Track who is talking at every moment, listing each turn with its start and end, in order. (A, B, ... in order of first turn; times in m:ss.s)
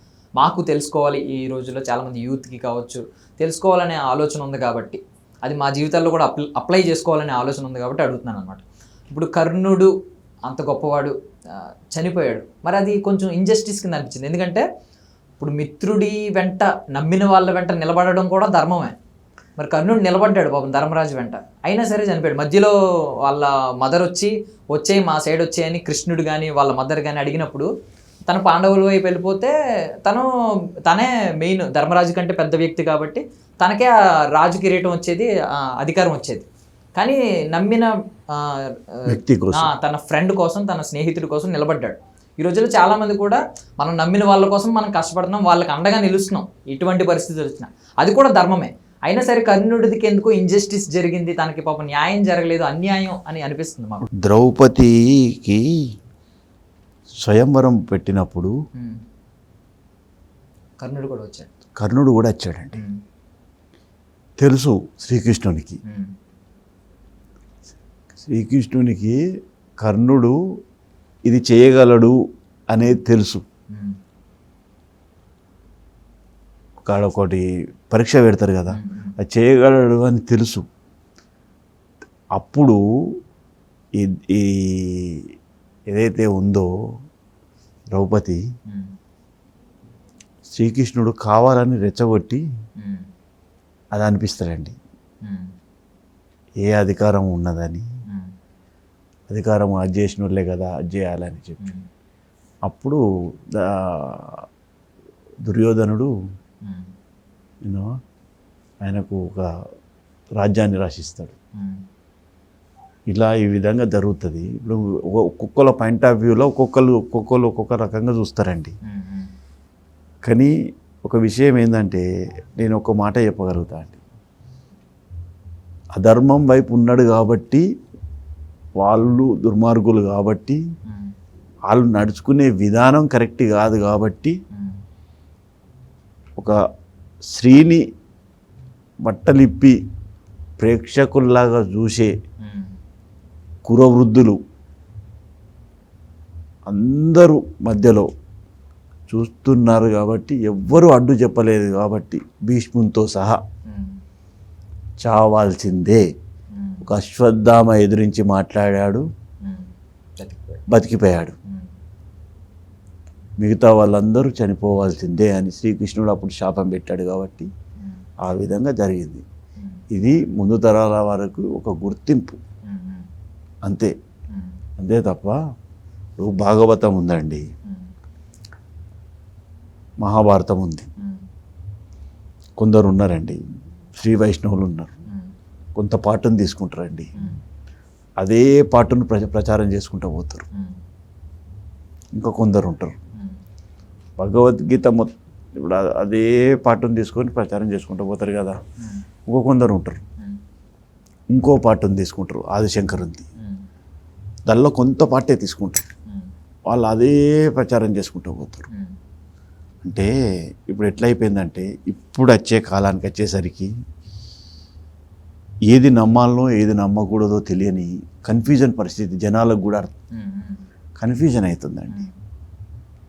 0:00.4-0:09.9 A
0:10.5-0:14.7 A
0:15.4-0:19.0 A
0:19.6-0:22.8 A
0:23.3-0:27.7 A
0:28.3-0:29.5 A
0:30.9-0:36.5 A
0:37.0-0:54.1 A
0:39.1-0:39.7 B
0:54.2-0:55.7 B
0:57.2-0:58.5 B
1:00.8-1:01.5 A
1:01.8-1:02.8 B
1:04.4-1:05.8 B
1:05.8-1:06.1 A
1:08.2-1:09.2 B
1:09.8-1:10.4 B
1:11.3-1:12.2 B
1:12.7-1:13.4 B
1:16.9-1:20.7 B
1:18.7-1:19.2 A
1:22.4-1:22.8 B
1:24.0-1:25.3 B
1:25.9-1:26.7 B
1:27.9-1:28.4 B
1:30.5-1:32.4 B
1:32.8-1:33.1 A
1:33.9-1:34.8 B
1:35.2-1:35.5 A
1:36.6-1:37.9 B
1:39.3-1:41.6 B
1:42.7-1:43.0 B
1:43.5-1:44.4 B
1:45.5-1:46.1 B
1:48.8-1:49.5 B
1:50.4-1:51.4 B
1:51.6-1:51.8 A
1:53.1-1:58.8 B
1:58.9-1:59.3 A
2:00.2-2:00.5 B
2:01.0-2:04.0 B
2:06.0-2:07.6 B
2:08.8-2:10.6 B
2:11.7-2:14.4 B
2:14.5-2:14.8 A
2:17.3-2:17.8 B
2:19.0-2:19.8 B
2:20.6-2:22.1 B
2:22.4-2:22.7 A
2:23.7-2:24.4 B
2:26.7-2:28.1 B
2:29.1-2:33.4 B
2:33.7-2:34.0 A
2:35.0-2:36.0 B
2:36.5-2:36.9 A
2:36.8-2:39.0 B
2:39.4-2:40.6 A
2:40.7-2:41.4 B
2:43.4-2:47.5 B
2:48.2-2:49.2 B
2:49.9-2:52.4 B
2:52.7-2:53.1 A
2:53.7-2:53.9 B
2:54.8-2:55.4 B
2:56.2-2:57.4 B
3:00.0-3:00.9 B
3:02.6-3:03.4 B
3:04.0-3:05.0 B
3:05.8-3:07.2 B
3:08.2-3:10.5 B
3:12.2-3:13.0 B
3:14.2-3:18.6 B
3:19.3-3:20.0 B
3:21.3-3:23.3 B
3:23.4-3:23.7 A
3:24.5-3:25.9 B
3:26.7-3:28.7 B
3:29.8-3:30.1 B
3:30.7-3:33.7 B
3:35.7-3:39.9 B
3:40.2-3:40.6 A
3:41.0-3:42.0 B
3:41.9-3:42.2 A